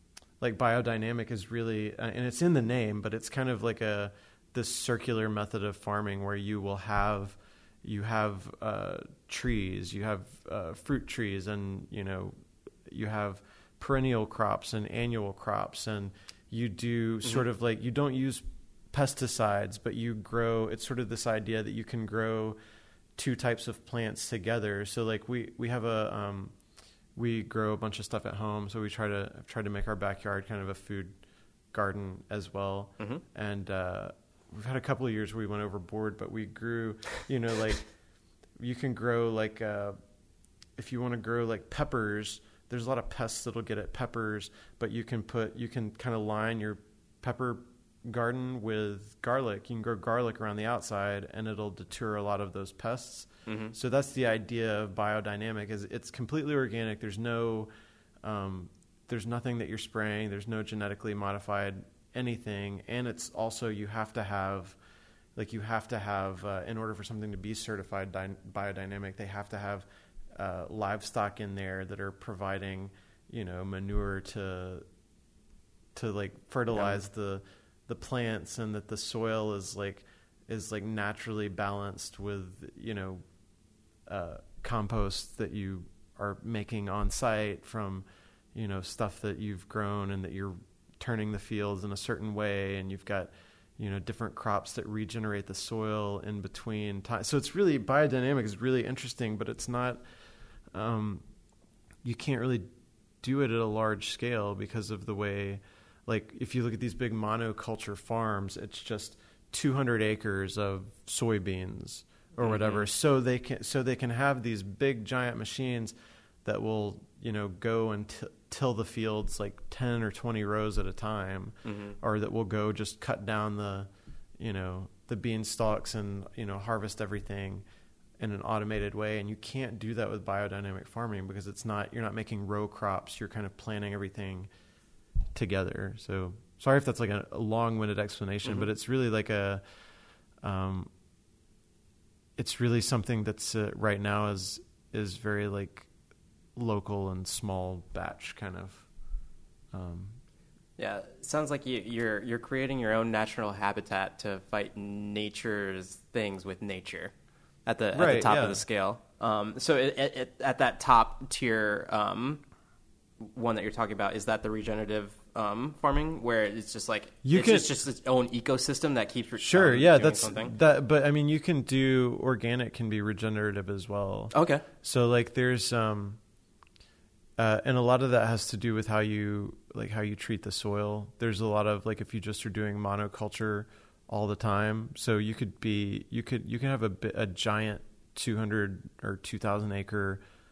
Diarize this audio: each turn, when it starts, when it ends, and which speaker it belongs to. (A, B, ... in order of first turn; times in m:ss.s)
0:00.4-0:12.3 A
0:12.8-0:22.6 A
0:23.2-0:26.5 A
0:27.1-0:31.2 A
0:31.7-0:37.9 A
0:38.6-0:40.0 A
0:40.8-0:57.7 A
0:53.4-0:53.7 B
0:58.2-1:04.8 A
1:05.4-1:14.8 A
1:15.9-1:23.2 A
1:16.7-1:17.0 B
1:24.1-1:40.0 A
1:40.7-1:41.2 A
1:42.0-1:42.7 A
1:43.2-2:03.9 A
1:52.4-1:52.8 B
2:01.6-2:02.0 B
2:04.4-2:07.6 A
2:08.2-2:14.5 A
2:15.3-2:19.6 A
2:20.4-2:20.9 A
2:22.4-2:25.9 A
2:26.6-2:28.9 A
2:29.7-2:30.2 A
2:30.8-2:37.1 B
2:37.6-2:42.4 B
2:37.9-2:38.6 A
2:43.2-2:50.5 B
2:47.2-2:47.7 A
2:49.4-2:56.2 A
2:54.3-2:54.6 B
2:57.4-3:10.2 A